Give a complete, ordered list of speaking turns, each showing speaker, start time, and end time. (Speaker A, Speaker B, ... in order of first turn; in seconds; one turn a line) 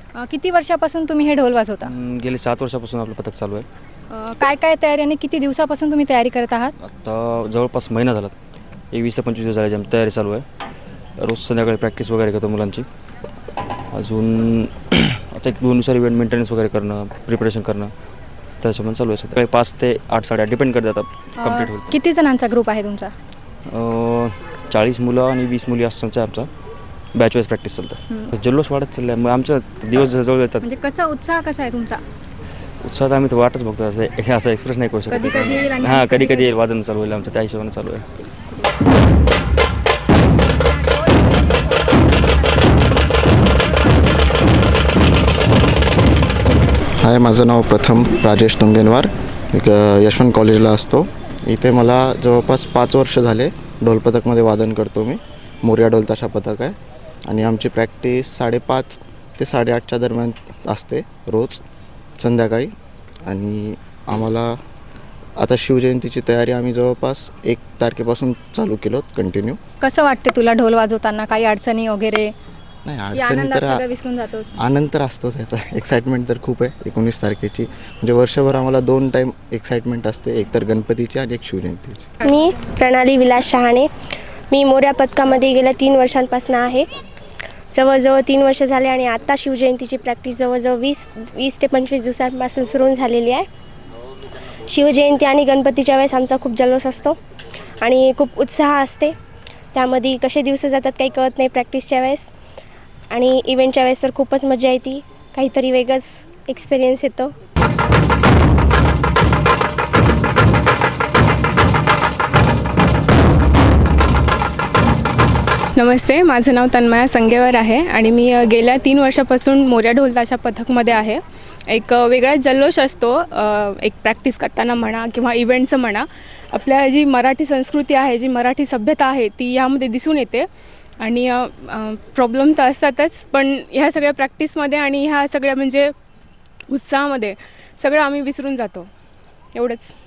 Speaker A: 0.1-1.9
Speaker B: 1.8-3.7
Speaker A: 4.1-6.7
Speaker B: 6.8-8.3
Speaker B: 8.9-10.4
Speaker B: 11.2-12.8
Speaker B: 13.9-17.9
Speaker B: 18.6-21.9
Speaker A: 21.4-23.1
Speaker B: 23.7-26.5
Speaker B: 27.1-30.6
Speaker A: 30.6-32.0
Speaker B: 32.8-38.2
Speaker A: 35.1-36.5
Speaker C: 47.0-61.6
Speaker C: 62.2-62.7
Speaker C: 63.2-64.6
Speaker C: 65.4-69.6
Speaker A: 69.8-72.3
Speaker C: 72.8-73.8
Speaker A: 73.1-74.5
Speaker C: 74.5-82.1
Speaker D: 82.2-83.9
Speaker D: 84.5-86.9
Speaker D: 87.7-93.5
Speaker D: 94.7-97.2
Speaker D: 97.8-99.1
Speaker D: 99.7-102.3
Speaker D: 103.1-107.3
Speaker E: 115.8-130.4
Speaker E: 131.0-135.9
Speaker E: 136.7-138.9
Speaker E: 139.5-139.9